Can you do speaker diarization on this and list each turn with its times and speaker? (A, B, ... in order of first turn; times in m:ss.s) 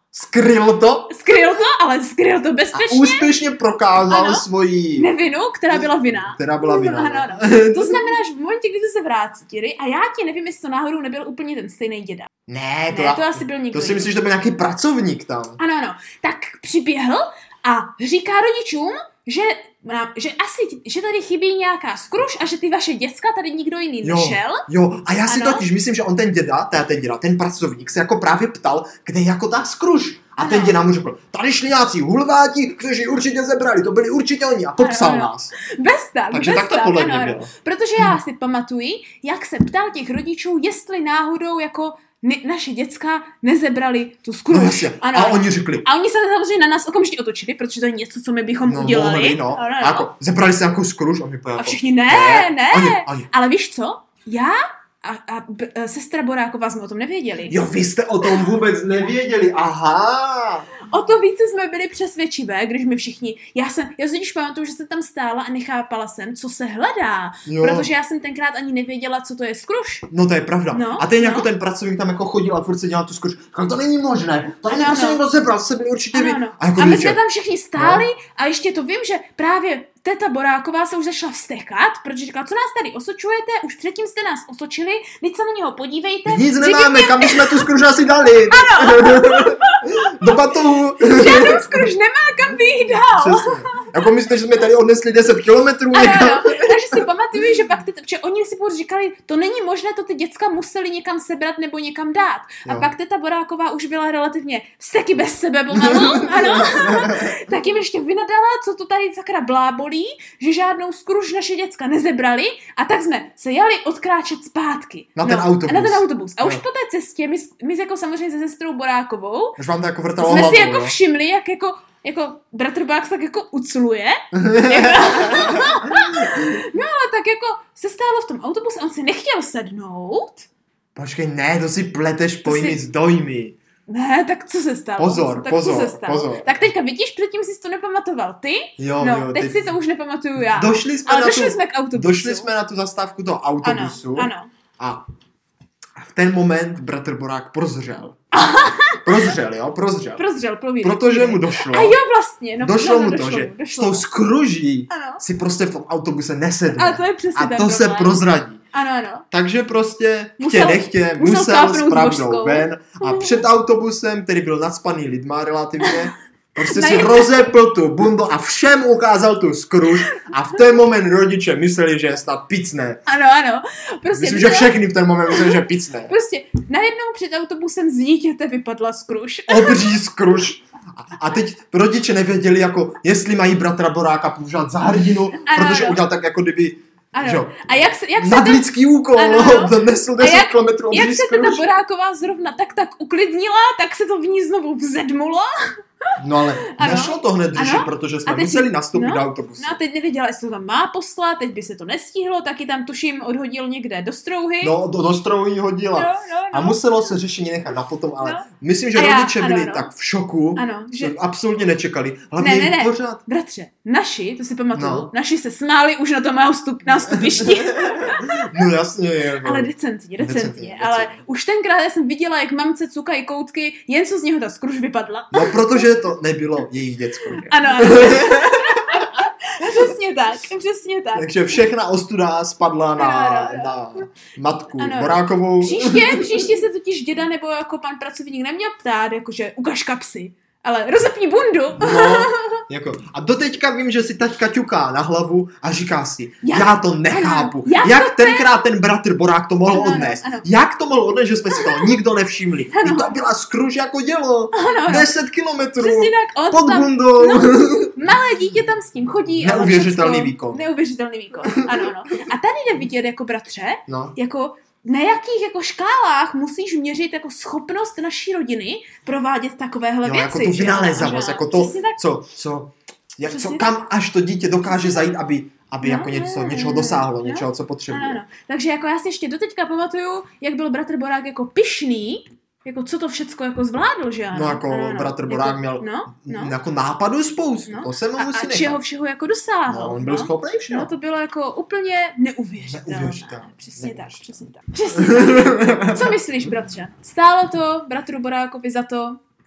0:00.1-0:01.2 A
0:01.1-0:03.3 B
0:02.7-0:05.1 A
0:04.1-0:12.3 B
0:05.7-0:08.1 A
0:12.5-0:15.6 A
0:12.9-0:14.1 B
0:15.6-0:24.6 B
0:24.0-0:35.5 A
0:25.2-0:25.7 B
0:30.4-0:30.8 B
0:34.8-0:50.1 B
0:36.3-0:38.1 A
0:44.5-0:45.8 A
0:48.6-0:53.3 A
0:51.6-0:57.6 B
0:57.5-1:00.7 A
1:00.8-1:10.0 B
1:07.4-1:07.9 A
1:10.1-1:17.2 A
1:10.7-1:11.5 B
1:14.7-1:15.2 B
1:16.1-1:27.7 B
1:17.8-1:18.1 A
1:26.3-1:31.9 A
1:28.4-1:30.4 B
1:31.0-1:33.6 B
1:33.0-1:37.0 A
1:35.9-1:59.6 B
1:42.6-1:42.9 A
1:45.7-1:47.4 A
1:55.2-1:56.6 A
1:59.6-2:01.0 A
2:00.2-2:10.5 B
2:04.3-2:06.5 A
2:11.0-2:13.6 A
2:12.4-2:12.8 B
2:13.9-2:22.5 B
2:15.0-2:16.6 A
2:18.8-2:19.7 A
2:20.4-2:25.0 A
2:23.6-2:24.5 B
2:26.0-2:28.2 A
2:28.3-2:29.3 B
2:29.0-2:30.2 A
2:30.2-2:34.0 B
2:30.8-2:32.0 A
2:32.6-2:38.6 A
2:34.9-2:35.2 B
2:36.7-2:38.2 B
2:38.7-2:39.2 B
2:39.3-2:53.0 A
2:40.4-2:43.4 B
2:45.8-2:47.4 B
2:53.0-2:54.8 B
2:54.1-2:56.1 A
2:55.3-3:00.0 B
2:59.5-3:11.7 A
3:05.4-3:06.0 B
3:07.1-3:15.5 B
3:16.2-3:19.8 A
3:16.7-3:24.8 B
3:24.6-3:33.2 A
3:25.9-3:26.8 B
3:28.2-3:29.9 B
3:30.6-3:31.1 B
3:32.4-3:38.6 B
3:34.7-3:35.1 A
3:37.0-3:39.7 A
3:39.4-3:46.0 B
3:40.2-3:41.2 A
3:45.3-3:49.2 A
3:47.3-3:51.3 B
3:51.1-3:56.5 A
3:53.0-3:53.7 B
3:54.8-4:02.6 B
4:01.8-4:18.0 A
4:06.4-4:08.7 B
4:09.7-4:10.4 B
4:11.5-4:11.9 B
4:12.7-4:13.2 B
4:14.5-4:15.1 B
4:15.8-4:32.0 B
4:19.4-4:20.6 A
4:23.9-4:24.1 A
4:30.0-4:38.2 A
4:33.3-4:33.7 B
4:34.7-4:35.1 B
4:35.8-4:46.5 B
4:44.3-4:48.8 A
4:47.7-4:59.2 B
4:49.7-4:50.9 A
4:52.6-4:54.2 A
4:54.9-4:56.2 A